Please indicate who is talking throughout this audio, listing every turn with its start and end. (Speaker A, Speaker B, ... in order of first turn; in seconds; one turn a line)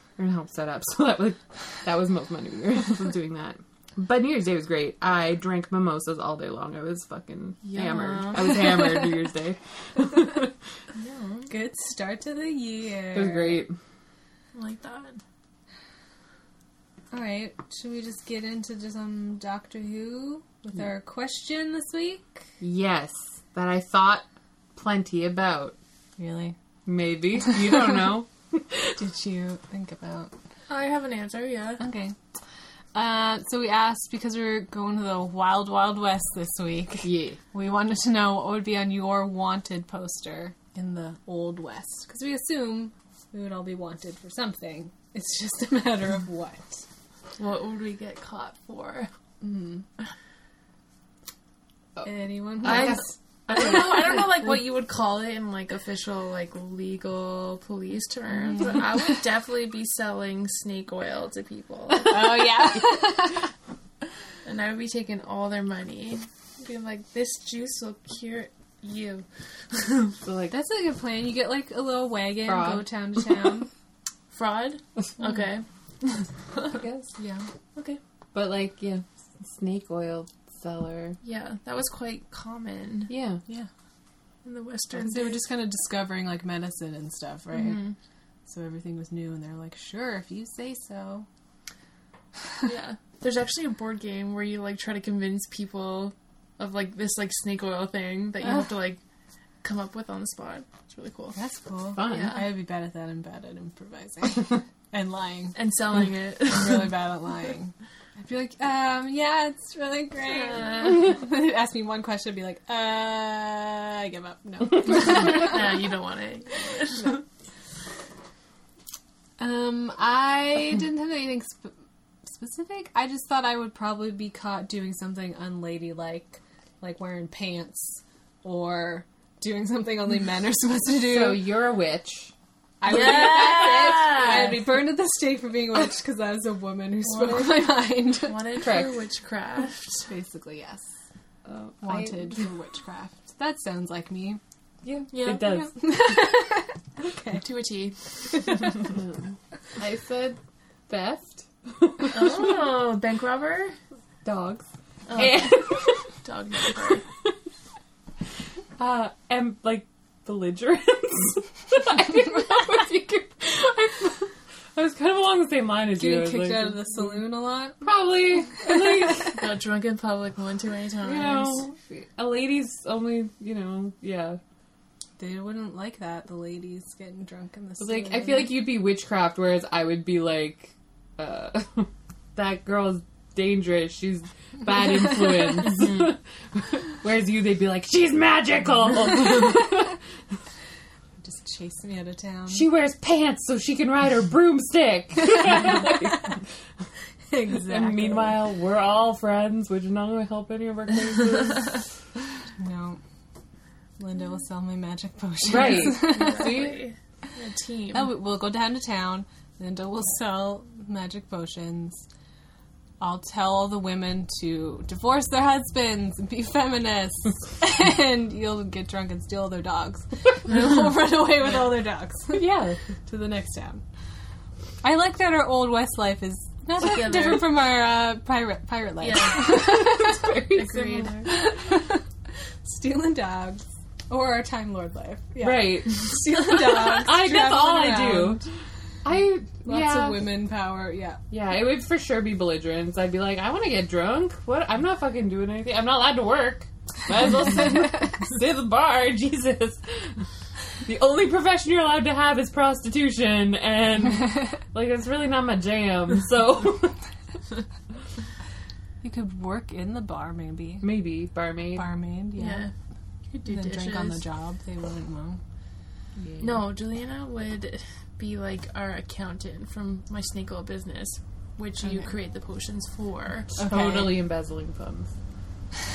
Speaker A: 0.2-10.5
Speaker B: 7.6-8.7
Speaker C: 8.6-9.0
Speaker B: 10.9-11.5
Speaker C: 11.5-13.6
Speaker A: 13.1-13.7
Speaker B: 14.5-15.2
Speaker C: 17.1-22.4
Speaker A: 22.6-25.8
Speaker C: 26.2-26.6
Speaker A: 26.9-28.9
Speaker C: 28.9-30.3
Speaker B: 30.7-31.8
Speaker C: 31.8-32.2
Speaker C: 32.9-46.8
Speaker A: 37.0-37.4
Speaker B: 47.4-49.1
Speaker C: 49.4-49.9
Speaker A: 52.0-54.2
Speaker C: 52.0-53.0
Speaker B: 52.6-62.2
Speaker C: 58.5-59.2
Speaker C: 62.0-63.5
Speaker B: 64.4-69.9
Speaker A: 70.1-70.5
Speaker C: 70.5-73.7
Speaker A: 72.4-72.8
Speaker B: 74.3-75.6
Speaker A: 76.5-77.1
Speaker C: 77.2-77.5
Speaker A: 78.3-81.2
Speaker B: 81.2-83.1
Speaker A: 83.1-83.4
Speaker B: 84.4-85.4
Speaker C: 84.9-87.8
Speaker B: 87.5-87.9
Speaker C: 88.5-91.3
Speaker B: 92.6-99.0
Speaker B: 99.6-101.4
Speaker C: 101.3-105.6
Speaker A: 101.9-102.3
Speaker B: 102.0-102.5
Speaker B: 105.5-106.9
Speaker C: 106.5-115.8
Speaker B: 110.3-110.9
Speaker B: 114.8-117.2
Speaker C: 119.4-121.7
Speaker C: 122.2-131.4
Speaker A: 131.0-132.3
Speaker C: 132.8-138.4
Speaker A: 132.9-134.5
Speaker B: 133.1-134.1
Speaker B: 137.1-140.1
Speaker A: 138.6-138.9
Speaker C: 140.1-140.9
Speaker A: 141.4-142.4
Speaker C: 141.8-144.4
Speaker A: 144.8-145.7
Speaker B: 145.1-145.7
Speaker C: 145.7-147.4
Speaker B: 147.4-148.0
Speaker C: 148.3-148.7
Speaker A: 148.9-152.6
Speaker B: 152.1-153.8
Speaker A: 154.2-156.1
Speaker B: 155.1-157.0
Speaker A: 158.8-167.2
Speaker C: 166.0-167.8
Speaker A: 167.8-169.5
Speaker B: 169.3-171.6
Speaker A: 171.0-174.4
Speaker C: 175.2-178.5
Speaker A: 177.8-190.0
Speaker C: 191.2-192.7
Speaker A: 192.5-196.4
Speaker C: 197.3-198.3
Speaker A: 197.7-201.8
Speaker C: 202.6-203.0
Speaker C: 204.0-206.6
Speaker A: 205.4-206.8
Speaker B: 205.5-208.1
Speaker C: 207.9-212.0
Speaker C: 213.0-222.4
Speaker A: 222.3-222.8
Speaker C: 223.1-223.8
Speaker C: 224.8-230.3
Speaker B: 226.8-227.5
Speaker B: 229.0-229.8
Speaker A: 229.5-231.3
Speaker B: 230.5-231.3
Speaker C: 231.2-232.0
Speaker C: 232.6-238.4
Speaker A: 235.4-238.4
Speaker A: 239.0-240.3
Speaker C: 239.6-241.2
Speaker A: 241.3-250.2
Speaker A: 250.8-256.9
Speaker C: 259.0-260.9
Speaker A: 260.8-261.8
Speaker C: 261.8-262.7
Speaker B: 262.4-262.7
Speaker B: 263.3-264.2
Speaker C: 263.4-265.4
Speaker A: 266.2-266.6
Speaker B: 266.4-273.6
Speaker A: 273.6-275.1
Speaker C: 273.6-274.1